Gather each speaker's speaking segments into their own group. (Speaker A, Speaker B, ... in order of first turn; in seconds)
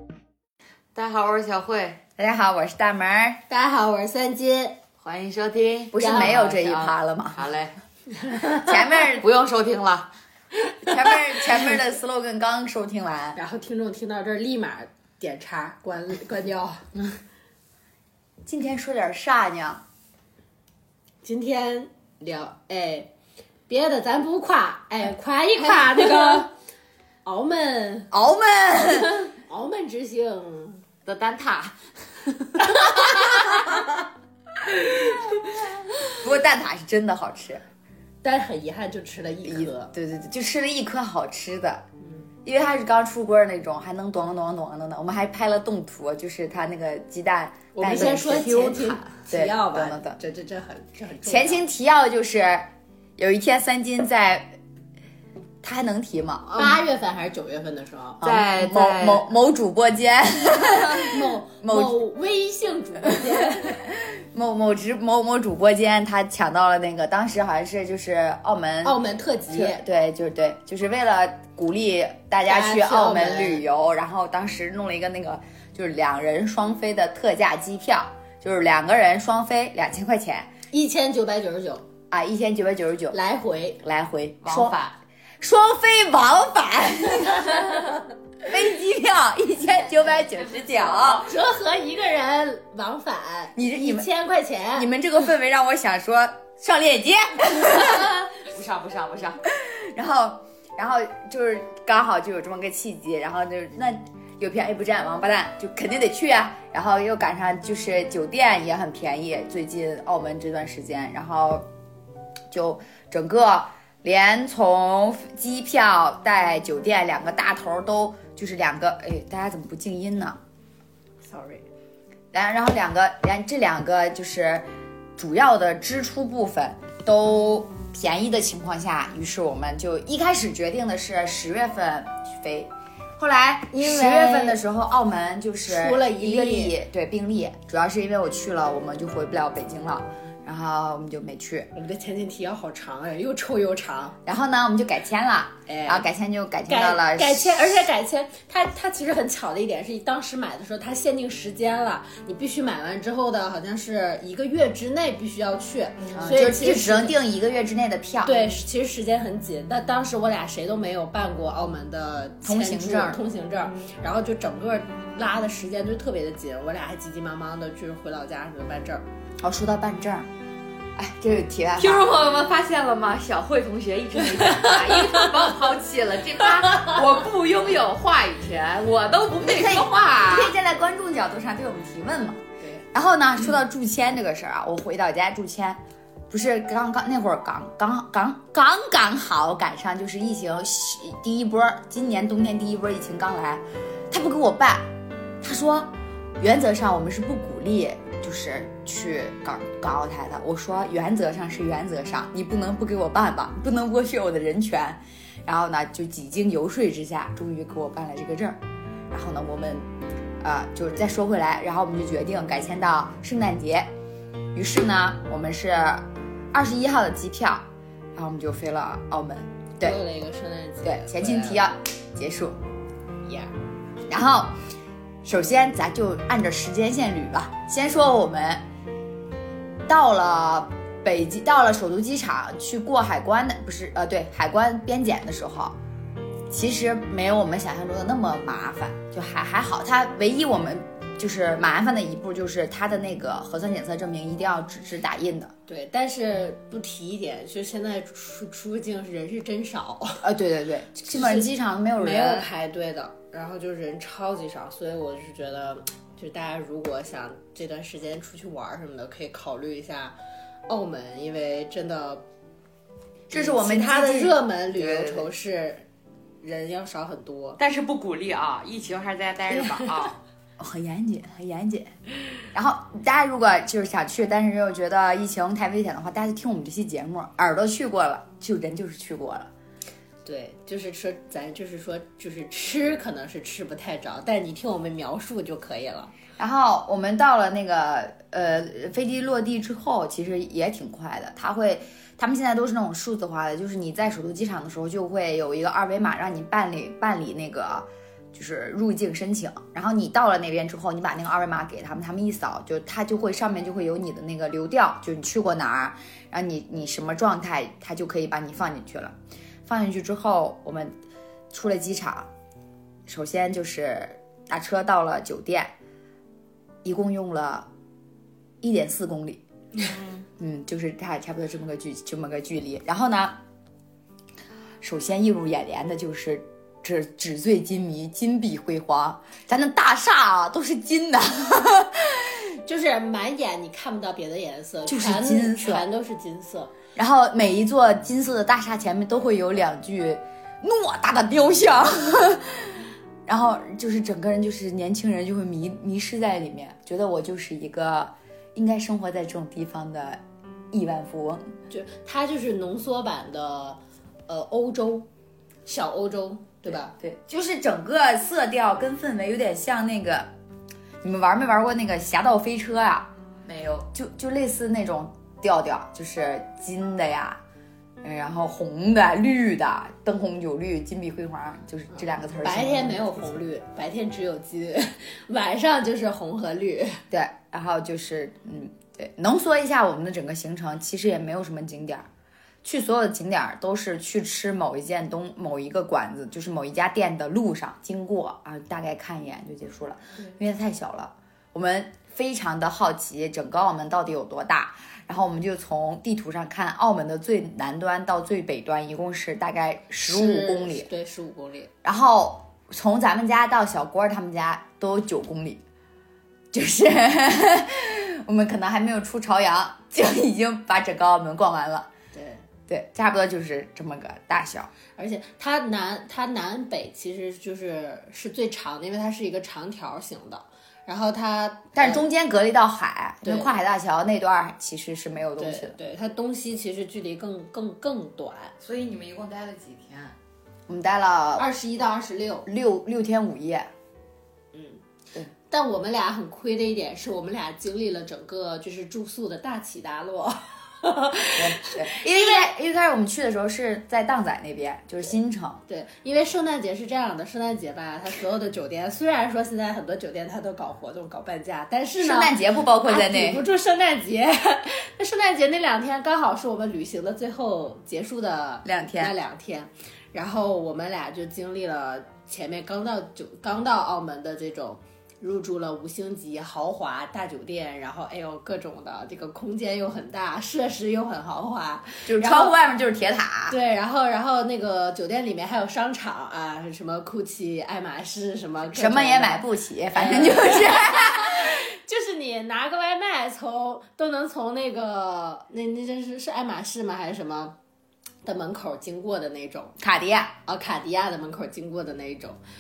Speaker A: 0.9-2.0, 5.0-7.8, 9.0-10.1, 31.1-33.7, 47.9-49.0, 58.2-59.3, 84.5-84.9, 90.5-91.2, 98.3-99.4, 171.8-180.5, 264.8-265.2, 267.6-270.2, 363.4-363.9, 428.6-430.1
Speaker B: 2.2-3.4, 5.9-7.5, 8.6-9.3, 10.8-13.4, 18.5-19.8, 25.9-26.4, 28.1-29.2, 36.2-37.6, 39.5-41.8, 42.5-48.8, 49.3-50.2, 51.2-54.6, 55.6-56.7, 58.2-62.0, 63.2-69.0, 69.5-80.5, 82.1-83.2, 83.8-84.9, 85.4-91.3, 93.5-94.1, 94.8-98.2, 99.5-111.7, 112.5-120.4, 122.3-141.7, 144.3-147.8, 156.1-158.4, 162.4-163.2, 169.4-170.3, 171.0-172.2, 179.4-182.4, 182.9-194.9, 195.4-209.9, 210.4-213.9, 214.5-220.0, 220.8-222.6, 224.1-224.6, 225.2-228.6, 229.9-235.8, 236.5-245.5, 250.2-252.5, 263.3-264.4, 269.5-271.9, 272.5-279.5, 286.4-310.9, 311.5-312.3, 313.1-315.7, 316.8-317.7, 318.6-319.4, 320.4-323.4, 324.8-332.5, 334.9-335.9, 337.0-350.2, 350.7-351.5, 356.6-360.3, 361.0-363.1, 363.9-367.4, 368.0-373.3, 377.1-382.1, 382.6-400.9, 401.8-405.6, 406.5-411.9, 412.7-414.7, 421.8-425.8, 430.7-431.5, 432.5-433.7, 441.4-445.6, 452.0-453.4, 458.6-459.1, 472.1-473.6, 478.7-481.6, 489.8-490.3
Speaker C: 3.5-4.8, 6.0-6.5, 8.3-8.6, 13.3-16.9, 21.2-23.1, 23.7-26.5, 27.2-28.1, 28.9-30.9, 38.2-39.9, 47.8-51.6, 56.5-58.2, 60.7-63.8, 68.8-69.8, 72.5-73.6, 80.7-81.9, 83.1-83.8, 91.1-94.9, 121.2-121.7, 133.7-134.6, 135.7-136.8, 141.7-144.2, 145.7-146.1, 146.7-157.2, 158.2-169.1, 174.7-175.1, 219.8-221.6, 223.2-223.5, 245.7-250.2, 251.1-260.1, 260.7-262.2, 263.3-265.9, 266.4-267.6, 280.2-286.1, 332.6-336.7, 351.7-355.1, 355.7-356.9, 372.4-377.0, 400.1-401.7, 412.1-412.4, 415.0-422.1, 423.2-423.5, 425.4-428.5, 431.4-432.5, 434.5-434.8, 435.5-442.4, 445.7-472.6, 473.5-487.6, 488.2-489.8, 490.4-492.4